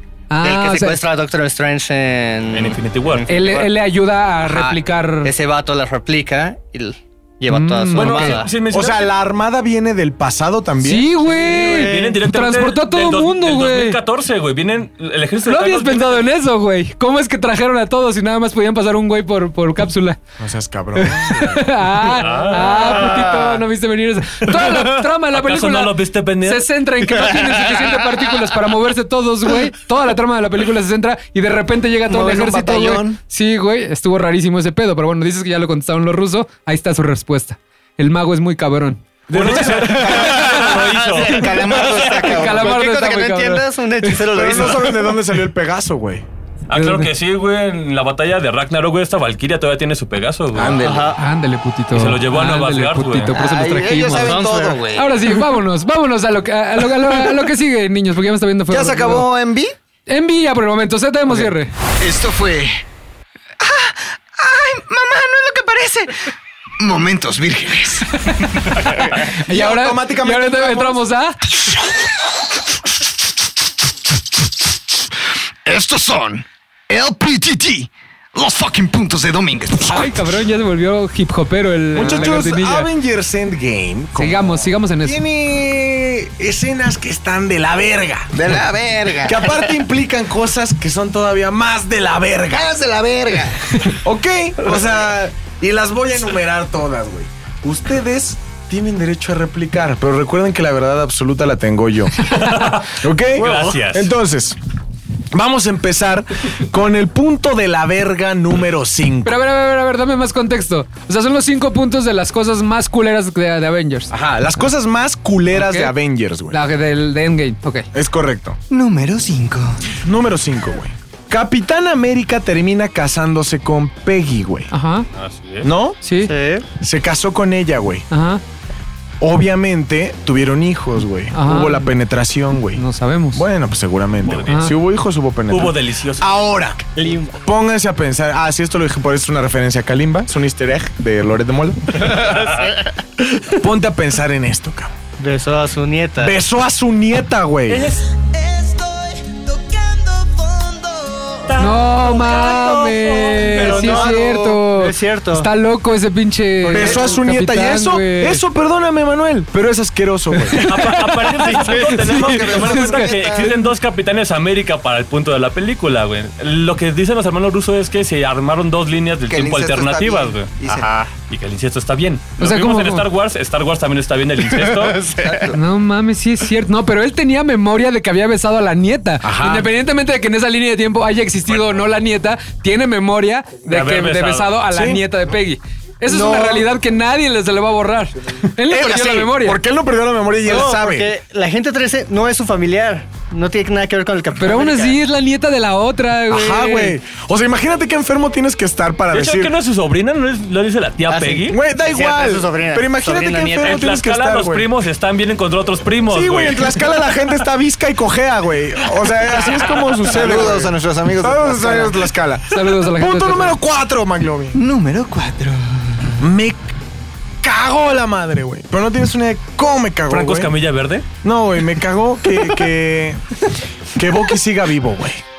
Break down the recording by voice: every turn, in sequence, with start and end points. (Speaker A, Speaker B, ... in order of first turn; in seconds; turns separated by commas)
Speaker A: 0.3-1.0, Speaker B: 0.4-3.6, Speaker C: 2.5-3.6, Speaker A: 3.3-5.3, Speaker B: 4.4-8.6, Speaker A: 7.5-8.4, Speaker C: 7.9-9.1, Speaker D: 8.7-11.1, Speaker A: 10.8-14.0, Speaker B: 11.4-12.0, Speaker C: 11.4-16.2, Speaker A: 15.4-20.2, Speaker D: 20.4-21.8, Speaker A: 21.0-40.5, Speaker C: 22.0-23.4, Speaker C: 24.5-26.7, Speaker B: 27.2-28.2, Speaker E: 32.1-33.2, Speaker D: 39.3-40.1, Speaker C: 39.3-41.6, Speaker E: 39.7-42.7, Speaker B: 40.9-45.0, Speaker A: 41.4-44.3, Speaker D: 44.2-46.2, Speaker C: 46.7-50.8, Speaker A: 46.7-47.1, Speaker E: 50.5-51.1, Speaker B: 50.8-51.2, Speaker A: 51.2-54.4, Speaker C: 51.9-53.3, Speaker E: 53.3-54.9, Speaker B: 54.1-55.1, Speaker A: 54.9-59.3, Speaker E: 58.7-59.7, Speaker A: 60.1-61.7, Speaker E: 62.0-62.8, Speaker E: 63.6-68.2, Speaker A: 68.3-71.4, Speaker D: 68.8-71.0, Speaker E: 75.6-80.1, Speaker A: 79.9-82.9, Speaker D: 81.9-88.3, Speaker A: 84.2-85.2, Speaker E: 88.3-89.7, Speaker D: 89.2-92.7, Speaker E: 92.5-93.8, Speaker D: 94.0-104.6, Speaker C: 102.2-104.1, Speaker D: 105.3-109.3, Speaker A: 109.2-114.1, Speaker D: 114.1-116.6, Speaker A: 115.5-115.9, Speaker A: 116.5-117.9, Speaker D: 117.9-118.6, Speaker E: 118.7-119.8, Speaker D: 120.0-124.7, Speaker A: 124.7-125.1, Speaker C: 125.1-125.7, Speaker D: 125.6-126.0, Speaker A: 126.0-126.3, Speaker B: 126.2-126.7, Speaker D: 126.8-128.1, Speaker A: 128.1-128.4, Speaker D: 129.2-132.8, Speaker A: 131.3-131.9, Speaker A: 132.7-133.4, Speaker D: 133.3-136.8, Speaker C: 134.2-134.7, Speaker A: 134.5-134.7, Speaker C: 135.5-136.3, Speaker B: 136.9-137.4, Speaker D: 137.4-142.3, Speaker C: 142.2-142.7, Speaker B: 142.5-142.9, Speaker D: 143.3-144.9, Speaker B: 145.2-146.4, Speaker D: 146.2-147.9, Speaker C: 147.7-148.0, Speaker B: 148.2-150.9, Speaker C: 151.5-154.2, Speaker A: 151.6-158.4, Speaker B: 153.5-155.5, Speaker B: 156.7-157.1, Speaker D: 156.7-160.6, Speaker A: 160.4-163.1, Speaker C: 160.6-170.7, Speaker E: 161.7-163.6, Speaker E: 169.3-170.9, Speaker B: 170.7-171.1, Speaker C: 171.3-175.0, Speaker A: 172.4-173.1, Speaker B: 174.6-175.5, Speaker E: 175.2-175.5, Speaker A: 175.5-189.6, Speaker D: 179.2-179.7, Speaker C: 183.7-184.6, Speaker D: 184.7-185.0, Speaker B: 186.3-186.6, Speaker D: 188.6-191.1, Speaker B: 190.4-195.0, Speaker A: 194.4-196.9, Speaker D: 196.3-199.5, Speaker C: 199.1-201.6, Speaker B: 201.1-203.8, Speaker D: 201.4-204.7, Speaker C: 203.6-206.8, Speaker D: 206.1-214.6, Speaker E: 210.0-212.1, Speaker A: 212.5-213.6, Speaker E: 214.5-216.2, Speaker D: 216.2-216.7, Speaker D: 217.4-220.5, Speaker C: 220.1-221.1, Speaker D: 221.2-223.4, Speaker D: 223.9-225.2